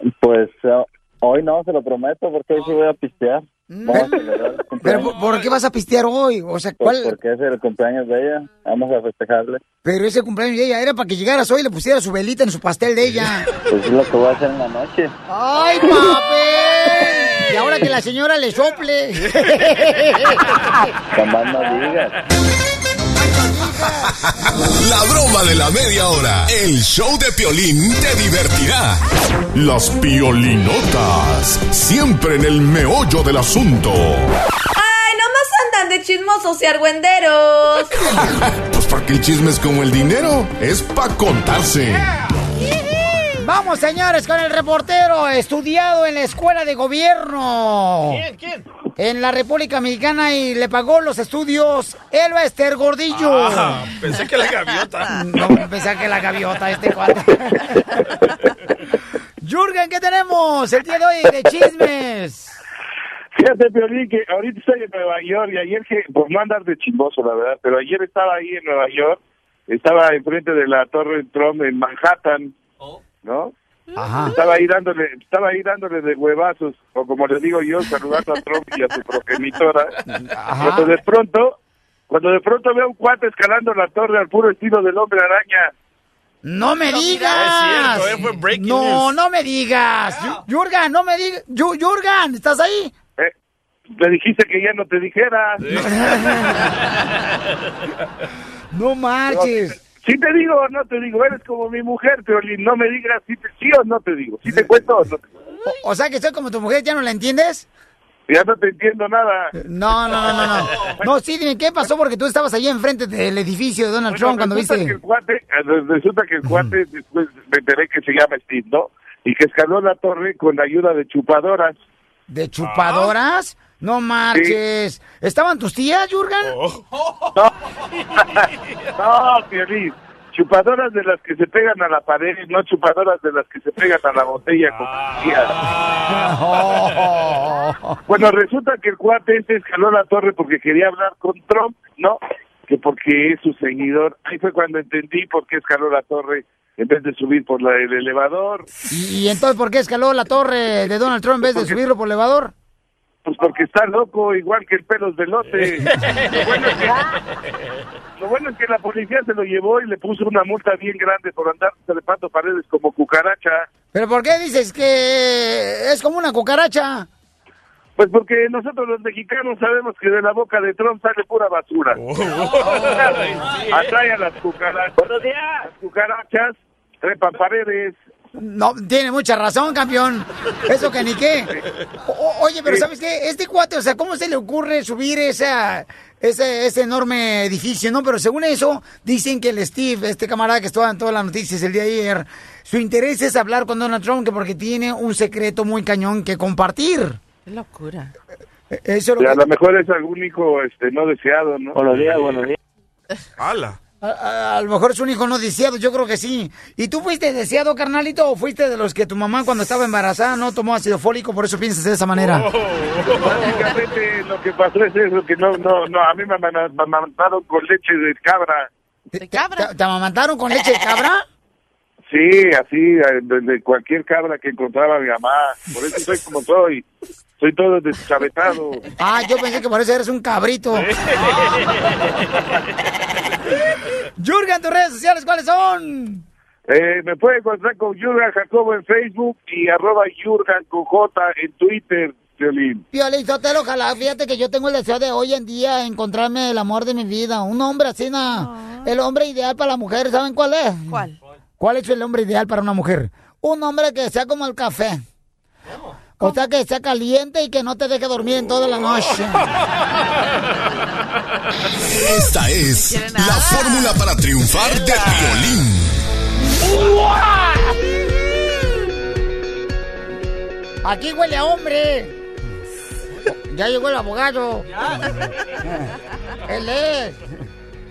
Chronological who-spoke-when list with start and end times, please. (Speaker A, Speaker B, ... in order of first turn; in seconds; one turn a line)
Speaker A: 0.2-5.2
Speaker B: 3.7-4.2
Speaker B: 4.8-7.2
Speaker A: 6.8-9.6
Speaker B: 9.8-13.5
Speaker A: 13.7-15.1
Speaker B: 15.3-20.4
Speaker A: 21.1-22.1
Speaker B: 23.2-24.2
Speaker C: 24.6-34.3
Speaker D: 34.9-37.7
Speaker C: 38.0-42.1
Speaker B: 43.4-48.2
Speaker E: 48.1-48.6
Speaker B: 49.0-53.9
Speaker E: 53.1-55.2
Speaker B: 55.1-58.1
Speaker B: 59.4-62.5
Speaker F: 63.4-69.2
Speaker F: 69.7-72.5
Speaker F: 73.2-73.5
Speaker B: 74.0-74.4
Speaker F: 74.3-80.0
Speaker B: 80.1-81.0
Speaker F: 80.6-81.5
Speaker F: 82.1-85.7
Speaker B: 86.4-92.9
Speaker G: 86.8-88.1
Speaker E: 87.3-89.2
Speaker F: 94.0-95.8
Speaker E: 95.6-97.4
Speaker B: 95.7-96.7
Speaker B: 98.7-99.8
Speaker F: 99.3-105.2
Speaker B: 104.5-104.7
Speaker B: 105.6-107.7
Speaker F: 108.3-109.5
Speaker B: 109.5-115.0
Speaker F: 114.1-121.8
Speaker B: 116.4-116.8
Speaker B: 122.3-126.6
Speaker E: 122.6-123.1
Speaker E: 126.4-126.8
Speaker E: 128.2-128.8
Speaker F: 129.0-135.5
Speaker E: 134.7-136.9
Speaker B: 136.1-138.0
Speaker F: 138.1-148.7
Speaker B: 148.9-152.5
Speaker F: 153.2-156.9
Speaker E: 155.6-157.2
Speaker F: 158.2-163.7
Speaker B: 163.9-167.1
Speaker F: 168.0-172.0
Speaker E: 172.0-173.9
Speaker F: 172.6-178.0
Speaker B: 178.4-181.5
Speaker B: 182.1-197.2
Speaker G: 197.5-198.1
Speaker B: 198.7-199.5
Speaker F: 199.2-201.8
Speaker A: 201.8-202.5
Speaker E: 201.9-202.3
Speaker E: 203.4-203.8
Speaker B: 204.0-212.5
Speaker E: 212.2-213.7
Speaker F: 213.2-218.7
Speaker B: 219.1-221.2
Speaker G: 219.2-219.7
Speaker F: 222.1-226.8
Speaker F: 227.4-228.8
Speaker B: 229.0-230.9
Speaker E: 230.8-232.1
Speaker B: 234.2-236.2
Speaker F: 236.7-242.8
Speaker B: 242.9-251.1
Speaker G: 248.3-248.9
Speaker G: 250.9-251.2
Speaker B: 251.6-255.0
Speaker B: 256.2-259.5
Speaker C: 261.9-266.0
Speaker G: 262.8-264.0
Speaker B: 270.8-272.2
Speaker B: 273.3-275.9
Speaker B: 276.5-277.3